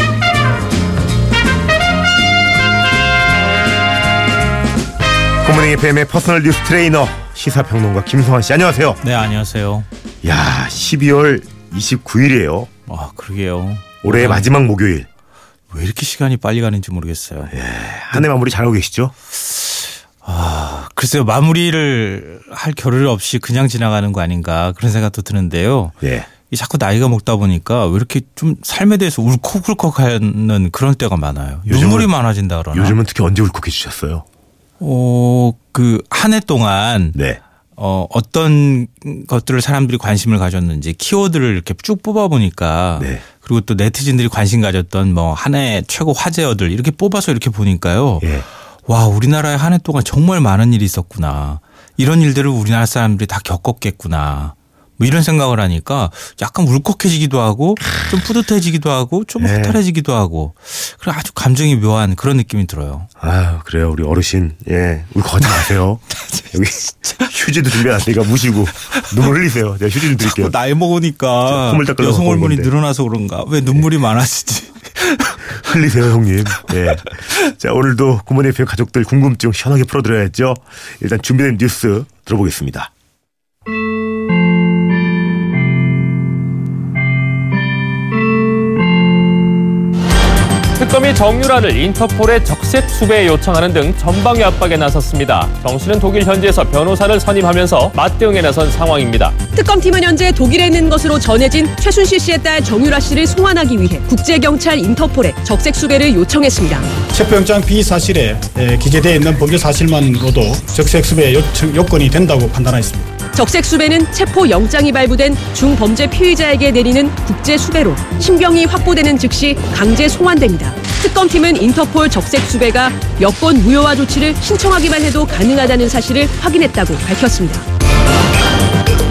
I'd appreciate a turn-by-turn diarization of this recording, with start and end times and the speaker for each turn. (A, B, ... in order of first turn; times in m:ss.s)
0:05.4-0:09.0 A
0:09.0-0:09.9 B
0:10.2-0:12.7 A
0:12.9-0:14.5 B
0:14.0-0:15.1 A
0:15.7-0:17.5 B
0:17.5-0:19.1 A
0:19.4-0:25.9 B
0:26.0-0:26.3 A
0:26.5-0:33.0 B
0:31.7-0:32.1 A
0:32.7-0:34.2 A
0:34.8-0:37.2 B
0:37.1-0:37.4 A
0:37.8-0:48.3 B
0:43.0-0:43.2 A
0:48.8-1:03.1 B
0:59.4-0:59.8 A
1:03.2-1:10.6 A
1:05.4-1:07.3 B
1:08.8-1:09.3 B
1:10.1-1:15.7 B
1:11.4-1:12.7 A
1:15.5-1:22.9 A
1:16.6-1:17.3 B
1:30.8-1:39.4 C
1:39.5-1:46.9 D
1:47.0-1:53.2 E
1:53.3-2:07.6 D